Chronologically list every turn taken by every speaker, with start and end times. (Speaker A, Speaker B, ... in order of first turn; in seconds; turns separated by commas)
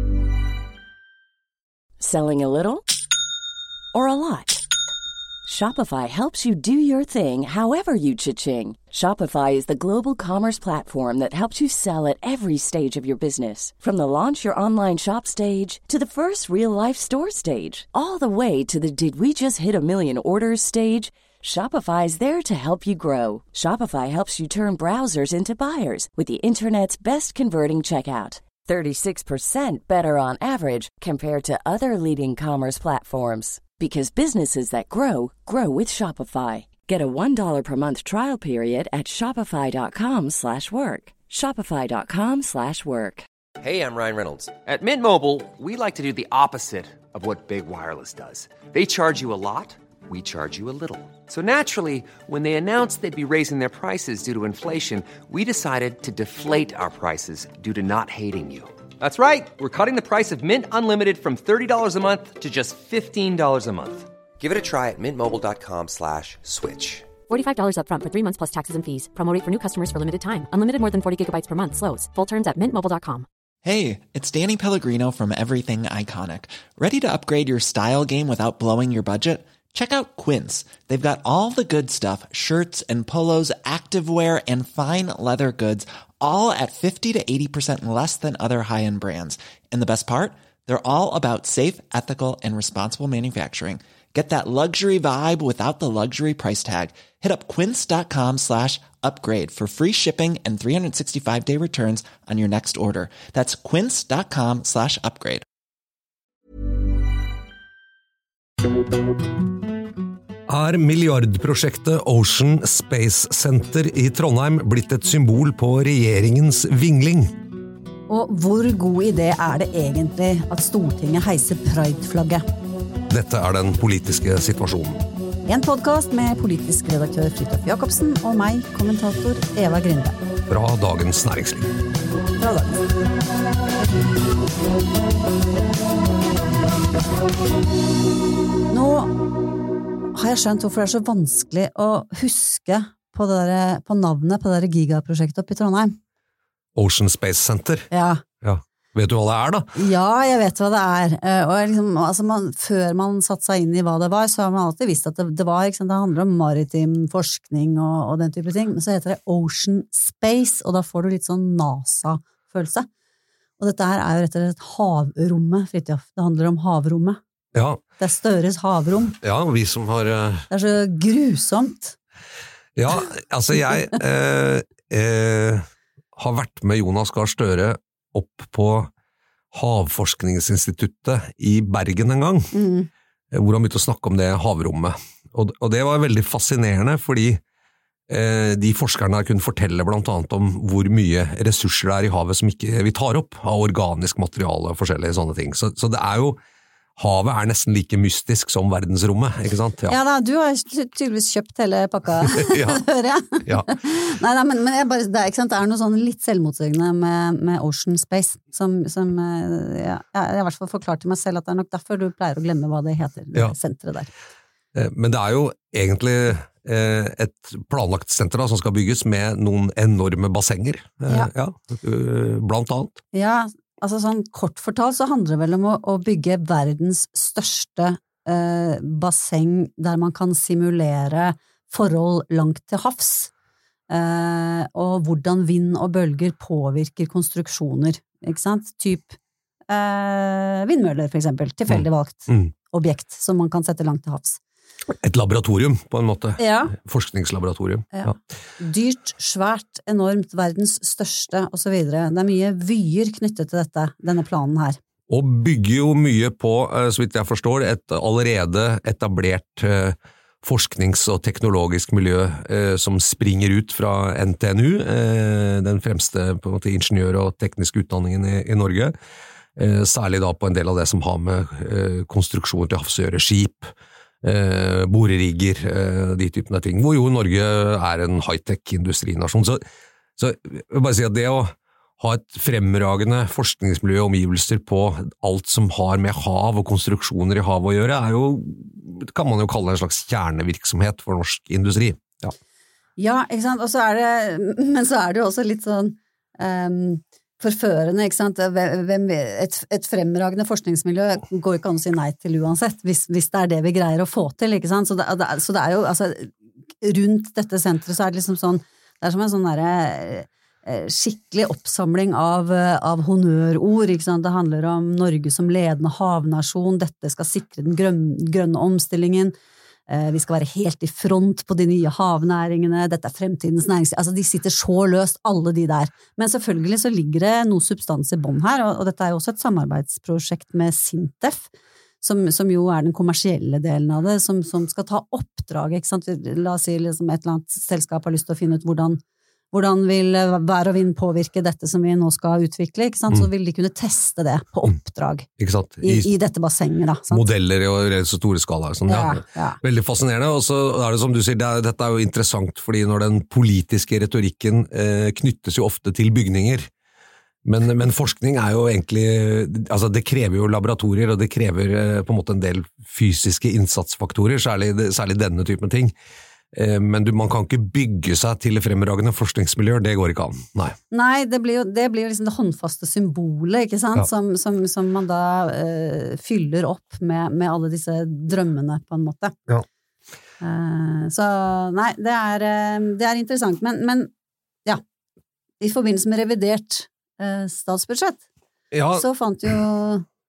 Speaker A: 2.0-2.9, Speaker A: 3.9-4.6, Speaker A: 5.5-43.3, Speaker B: 43.6-67.1, Speaker C: 67.3-73.3, Speaker D: 73.6-105.5, Speaker E: 110.5-117.3, Speaker F: 118.1-122.5, Speaker E: 123.1-125.0, Speaker F: 125.5-130.2, Speaker E: 130.5-131.7, Speaker F: 132.4-132.8, Speaker F: 138.7-139.3, Speaker F: 140.2-146.0, Speaker E: 146.8-147.9, Speaker F: 147.9-148.2, Speaker E: 148.4-149.7, Speaker F: 149.8-162.9, Speaker F: 163.6-167.2, Speaker E: 167.6-167.8, Speaker F: 168.0-169.2, Speaker E: 169.2-170.5, Speaker F: 170.5-172.0, Speaker E: 172.8-178.9, Speaker E: 179.5-182.5, Speaker F: 182.5-182.9, Speaker E: 183.3-187.4, Speaker E: 188.1-196.4, Speaker E: 197.0-200.0, Speaker F: 199.9-214.1, Speaker E: 202.4-202.8, Speaker E: 214.8-223.0, Speaker F: 223.1-233.3, Speaker F: 233.9-239.2, Speaker F: 239.7-244.4, Speaker E: 241.7-242.5, Speaker E: 245.0-248.2, Speaker F: 246.4-246.7, Speaker F: 247.9-254.8, Speaker E: 255.1-268.9, Speaker E: 269.6-273.7, Speaker E: 274.2-279.6, Speaker E: 280.2-292.3, Speaker F: 293.0-319.4, Speaker F: 319.9-331.5, Speaker F: 332.0-345.3, Speaker E: 345.4-346.1, Speaker F: 345.8-347.2, Speaker E: 347.1-356.7, Speaker F: 348.9-349.6, Speaker E: 357.4-365.9, Speaker E: 366.5-370.8, Speaker F: 370.9-379.4, Speaker F: 380.4-384.1, Speaker F: 385.6-388.2, Speaker E: 388.7-389.1, Speaker F: 388.9-390.1